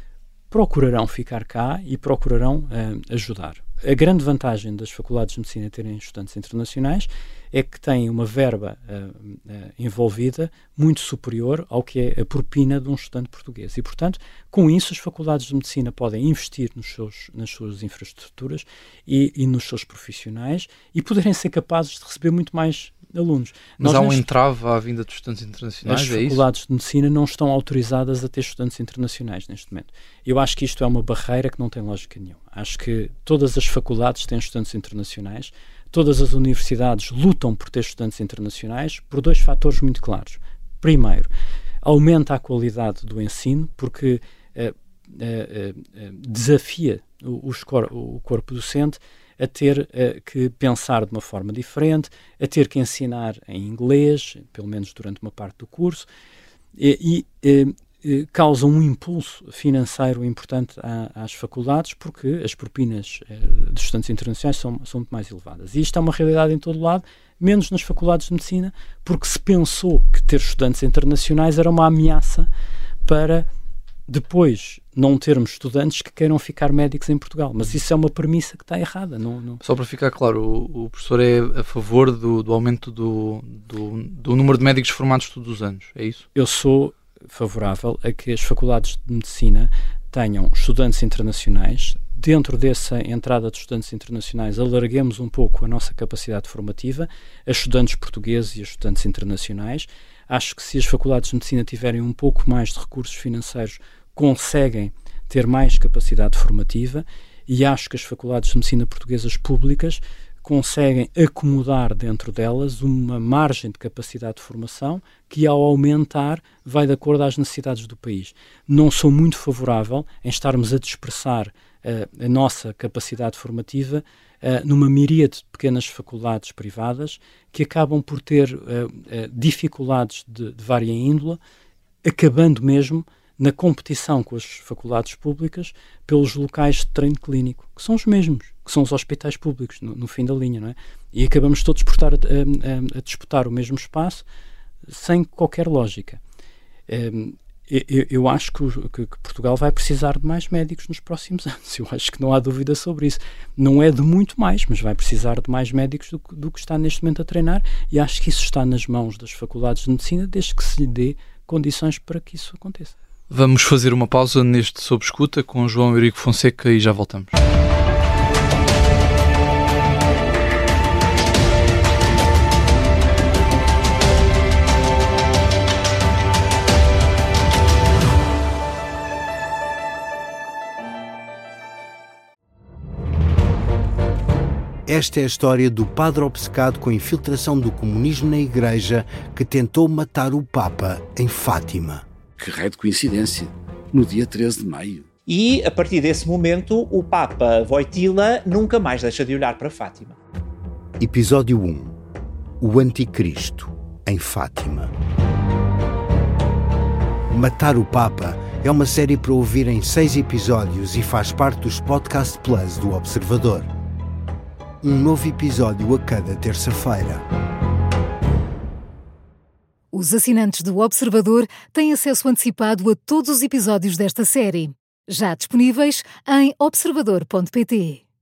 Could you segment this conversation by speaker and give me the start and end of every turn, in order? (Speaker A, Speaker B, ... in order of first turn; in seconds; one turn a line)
Speaker A: 0.5-24.3
Speaker B: 23.8-26.4
Speaker A: 25.8-41.3
Speaker A: 41.8-56.1
Speaker A: 56.8-72.5
Speaker A: 73.0-73.5
Speaker A: 74.1-79.6
Speaker B: 79.6-86.2
Speaker A: 86.3-131.4
Speaker A: 132.0-144.2
Speaker A: 144.9-146.2
Speaker A: 146.9-162.9
Speaker B: 163.3-167.4
Speaker C: 184.9-192.1
Speaker D: 192.4-195.1
Speaker E: 195.3-200.2
Speaker C: 201.0-202.0
Speaker C: 202.6-204.9
Speaker C: 207.3-213.7
Speaker C: 214.8-217.2
Speaker F: 219.9-228.0